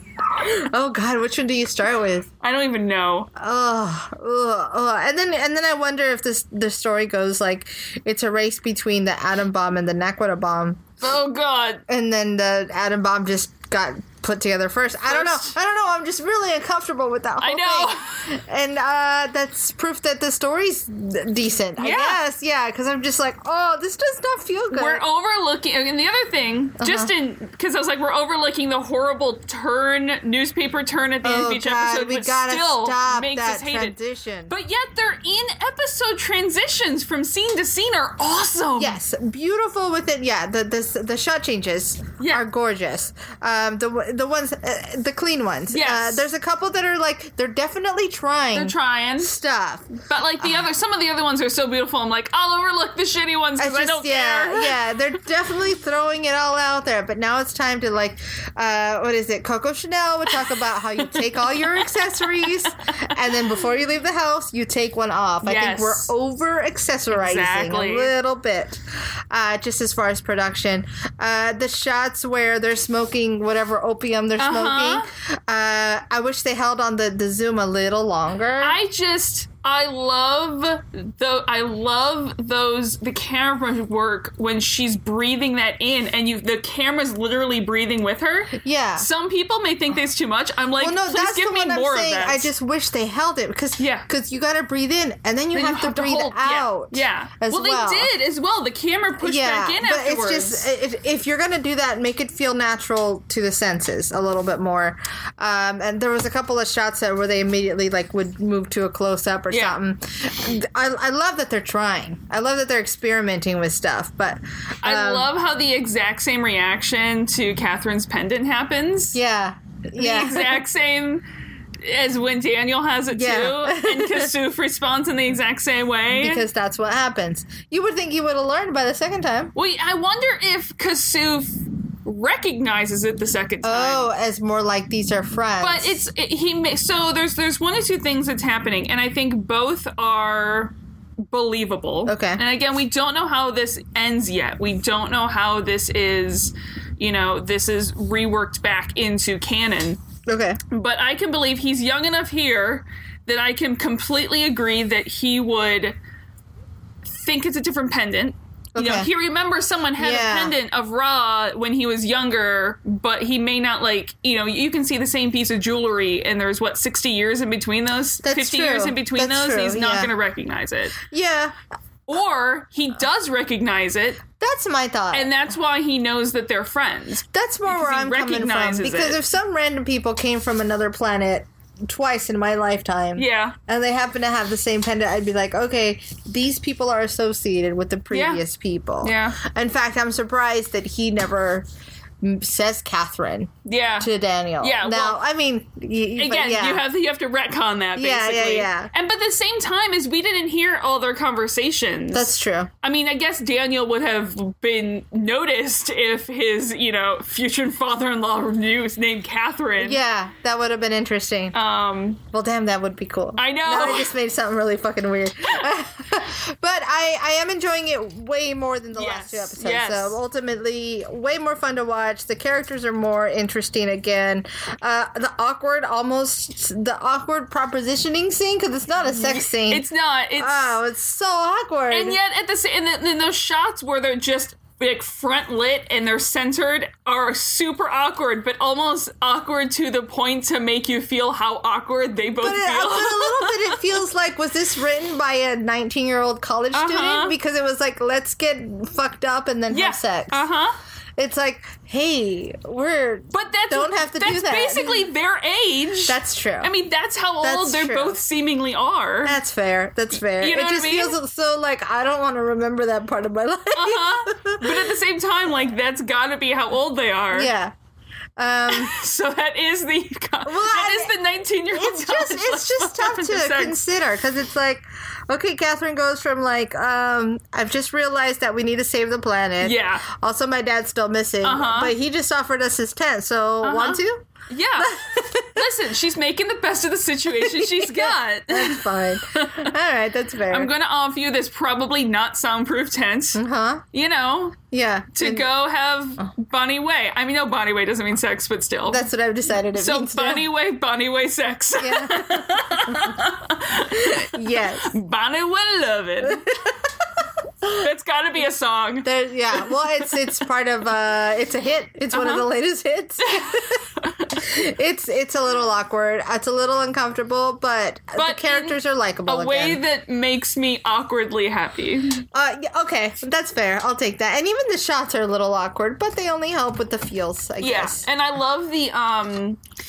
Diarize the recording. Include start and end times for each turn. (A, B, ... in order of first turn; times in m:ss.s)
0:00.4-0:02.3 A
0:02.4-0:03.3 B
0:03.4-0:10.8 A
0:11.0-0:11.8 B
0:11.9-0:25.0 A
0:15.1-0:15.6 B
0:17.4-0:18.3 B
0:21.8-0:22.2 B
0:24.7-0:34.0 B
0:26.8-0:27.1 A
0:31.2-0:34.5 A
0:34.5-0:39.0 B
0:38.8-0:50.7 A
0:42.2-0:42.4 B
0:45.7-0:46.2 B
0:48.6-0:49.3 B
0:50.1-0:54.8 B
0:53.6-1:18.8 A
1:01.0-1:03.3 B
1:05.4-1:06.1 B
1:07.1-1:08.1 B
1:14.4-1:15.1 B
1:18.6-1:32.5 B
1:28.6-1:29.1 A
1:30.8-1:38.1 A
1:33.8-1:34.1 B
1:35.5-1:40.7 B
1:39.2-1:55.3 A
1:49.5-1:49.8 B
1:54.8-1:59.2 B
1:59.1-2:00.6 A
2:00.0-2:01.2 B
2:01.8-2:06.4 B
2:03.1-2:04.3 A
2:06.1-2:09.5 A
2:09.5-2:14.1 B
2:13.6-2:16.0 A
2:15.6-2:20.8 B
2:21.3-2:30.0 B
2:22.1-2:22.4 A
2:30.3-2:30.6 A
2:30.7-2:36.0 B
2:37.1-2:51.0 B
2:38.8-2:39.1 A
2:40.0-2:40.6 A
2:48.2-2:50.1 A
2:51.1-2:51.6 A
2:52.1-2:54.2 B
2:54.4-2:55.3 A
2:55.1-2:59.2 B
2:57.3-3:11.7 A
3:03.2-3:03.6 B
3:08.1-3:08.4 B
3:09.0-3:09.4 B
3:12.2-3:16.9 A
3:13.6-3:15.2 B
3:16.2-3:30.0 B
3:18.0-3:18.9 A
3:22.1-3:22.7 A
3:29.8-3:31.6 A
3:31.5-3:32.2 B
3:32.3-3:52.2 A
3:33.4-3:34.1 B
3:38.9-3:40.2 B
3:49.0-3:50.8 B
3:51.9-4:03.8 B
4:02.4-4:10.5 A
4:06.7-4:07.4 B
4:09.7-4:10.8 B
4:11.2-4:15.1 A
4:13.3-4:19.4 B
4:16.1-4:16.7 A
4:17.4-4:18.2 A
4:19.2-4:24.8 A
4:20.4-4:21.2 B
4:23.7-4:27.5 B
4:27.3-4:27.7 A
4:28.4-4:28.9 A
4:28.7-4:33.8 B
4:30.4-4:44.2 A
4:39.6-4:40.0 B
4:41.4-4:41.9 B
4:43.6-4:45.0 B
4:44.8-4:45.7 A
4:45.6-4:49.7 B
4:47.3-4:50.7 A
4:50.5-4:53.4 B
4:53.4-4:53.8 A
4:53.9-4:54.6 B
4:54.7-4:55.5 A
4:55.1-4:59.1 B
4:58.9-5:00.5 A
4:59.7-5:06.5 B
5:01.8-5:03.2 A
5:04.0-5:05.0 A
5:06.2-5:06.8 A
5:07.8-5:09.9 B
5:09.0-5:19.8 A
5:12.1-5:12.5 B
5:13.2-5:14.4 B
5:18.2-5:22.2 B
5:22.3-5:28.0 A
5:27.6-5:29.6 B